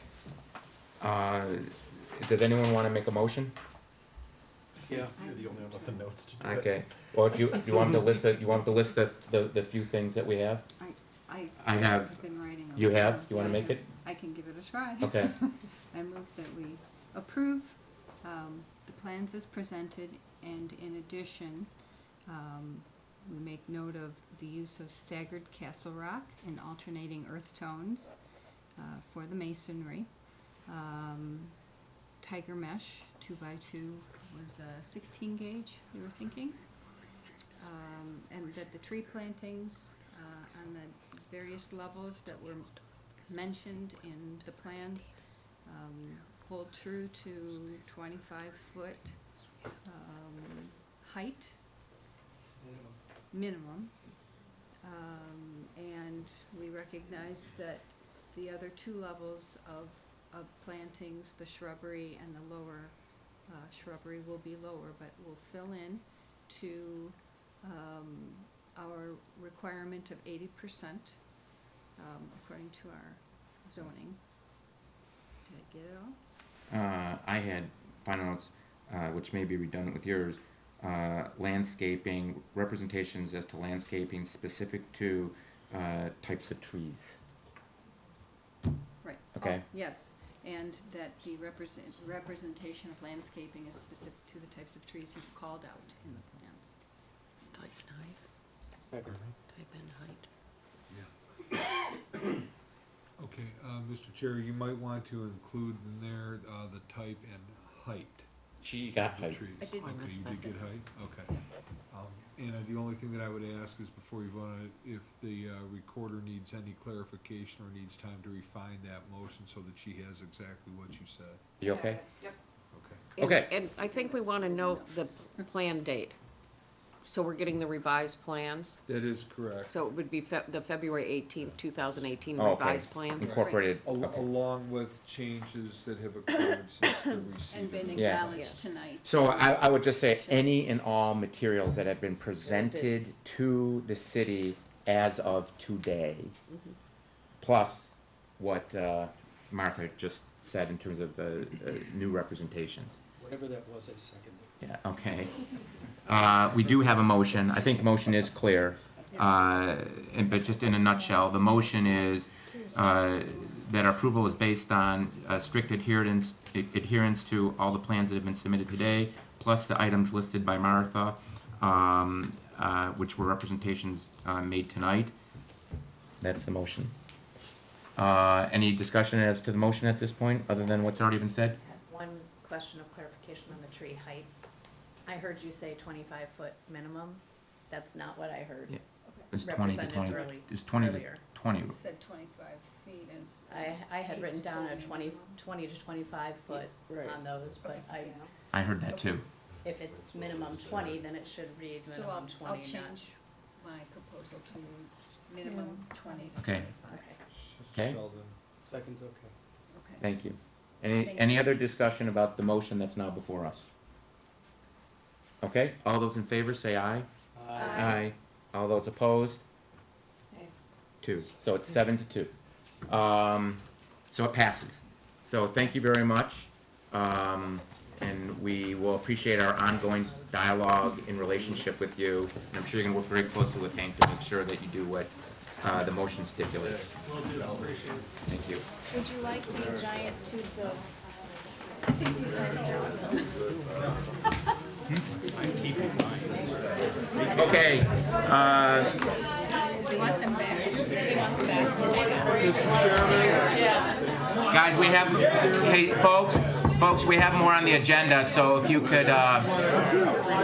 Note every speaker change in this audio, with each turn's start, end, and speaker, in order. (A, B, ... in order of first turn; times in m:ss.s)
0:01.0-0:03.5 A
0:04.8-0:06.5 B
0:05.0-0:06.1 C
0:06.4-0:10.6 A
0:10.8-0:21.7 C
0:11.6-0:12.2 A
0:12.7-0:13.9 A
0:15.0-0:15.3 A
0:22.3-0:28.1 C
0:28.8-0:30.1 C
0:30.7-0:31.5 C
0:32.2-0:36.6 C
0:37.6-0:42.7 C
0:43.3-0:45.1 C
0:45.6-0:49.1 C
0:49.8-0:51.6 C
0:52.6-0:53.0 B
0:53.3-0:53.9 C
0:54.8-1:11.2 C
1:12.0-1:14.2 C
1:15.4-1:16.2 C
1:16.7-1:27.2 A
1:29.0-1:36.8 C
1:29.4-1:29.6 A
1:37.5-1:38.2 D
1:38.9-1:39.2 B
1:39.5-1:40.2 D
1:43.2-1:48.3 E
1:48.6-1:49.4 A
1:49.0-1:51.3 E
1:49.6-1:50.8 C
1:49.8-1:50.4 D
1:51.9-2:01.4 E
2:01.6-2:02.0 A
2:02.7-2:03.1 E
2:03.2-2:06.2 D
2:03.2-2:03.5 A
2:03.7-2:05.5 C
2:07.0-2:08.8 D
2:08.8-2:09.8 E
2:09.6-2:13.7 D
2:12.3-2:14.3 A
2:13.2-2:18.4 E
2:17.5-2:20.7 C
2:17.9-2:18.3 A
2:18.2-2:18.6 D
2:19.0-2:26.3 A
2:22.4-2:22.9 D
2:27.4-2:33.0 A
2:33.2-2:34.5 B
2:34.6-2:35.3 A
2:36.0-2:55.1 A
2:56.2-2:56.9 A
2:58.0-3:01.6 A
3:00.7-3:04.3 F
3:05.0-3:08.8 F
3:08.7-3:11.8 A
3:09.0-3:09.3 C
3:09.4-3:11.2 F
3:11.6-3:15.4 C
3:13.5-3:18.3 F
3:16.5-3:17.2 D
3:17.6-3:17.9 C
3:18.5-3:19.2 A
3:18.9-3:19.2 C
3:19.6-3:23.0 F
3:21.8-3:27.2 C
3:26.4-3:26.7 A
3:26.8-3:27.2 F
3:27.3-3:28.4 E
3:27.7-3:28.0 A
3:28.6-3:29.3 B
3:29.7-3:30.0 C
3:30.0-3:33.7 A
3:31.0-3:31.7 C
3:35.4-3:37.1 A
3:37.3-3:37.7 B
3:37.6-3:38.0 G
3:37.6-3:39.4 A
3:41.0-3:42.3 A
3:42.8-3:57.0 A
3:57.3-3:57.8 B
3:58.2-3:58.6 A
3:58.9-4:00.9 G
4:01.9-4:03.3 C
4:07.3-4:09.0 A
4:09.8-4:11.2 C
4:11.0-4:13.0 G
4:12.4-4:13.7 E
4:14.5-4:19.6 A